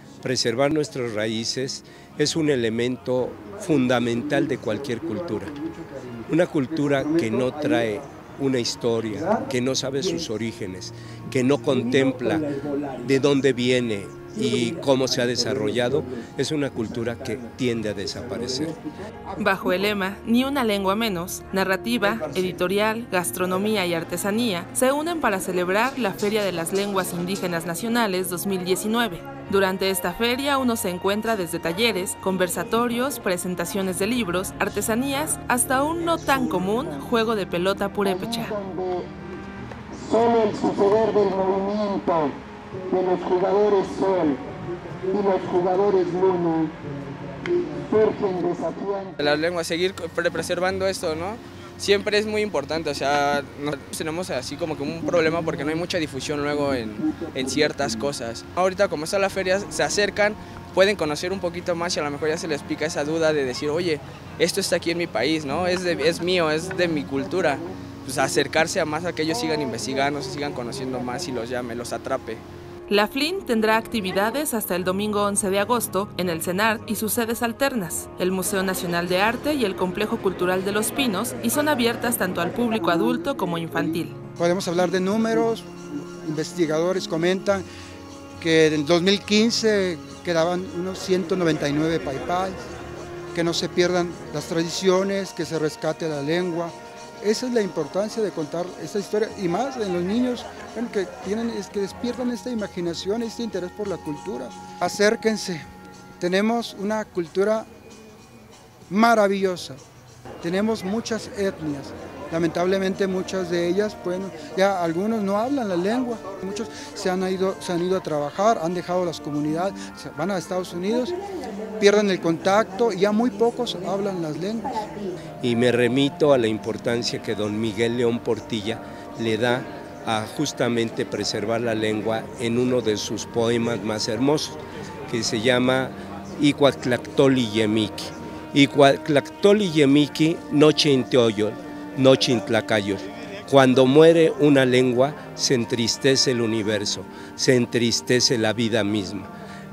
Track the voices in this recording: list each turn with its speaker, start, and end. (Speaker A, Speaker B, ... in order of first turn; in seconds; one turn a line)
Speaker A: 0.2-5.5
Speaker B: 3.6-8.1
Speaker A: 6.3-18.8
Speaker B: 9.1-9.5
Speaker C: 19.4-38.5
Speaker D: 36.0-37.0
Speaker D: 38.0-39.1
Speaker D: 39.9-42.4
Speaker D: 42.9-44.4
Speaker D: 45.1-46.8
Speaker D: 47.4-49.3
Speaker E: 49.2-72.4
Speaker D: 57.0-57.9
Speaker D: 66.9-67.6
Speaker C: 72.9-84.2
Speaker B: 82.5-87.6
Speaker B: 88.4-92.6
Speaker B: 93.3-105.6
Speaker B: 106.2-107.7
Speaker B: 108.9-109.8
Speaker B: 110.4-121.2
Speaker B: 121.8-124.9
Speaker A: 125.4-149.3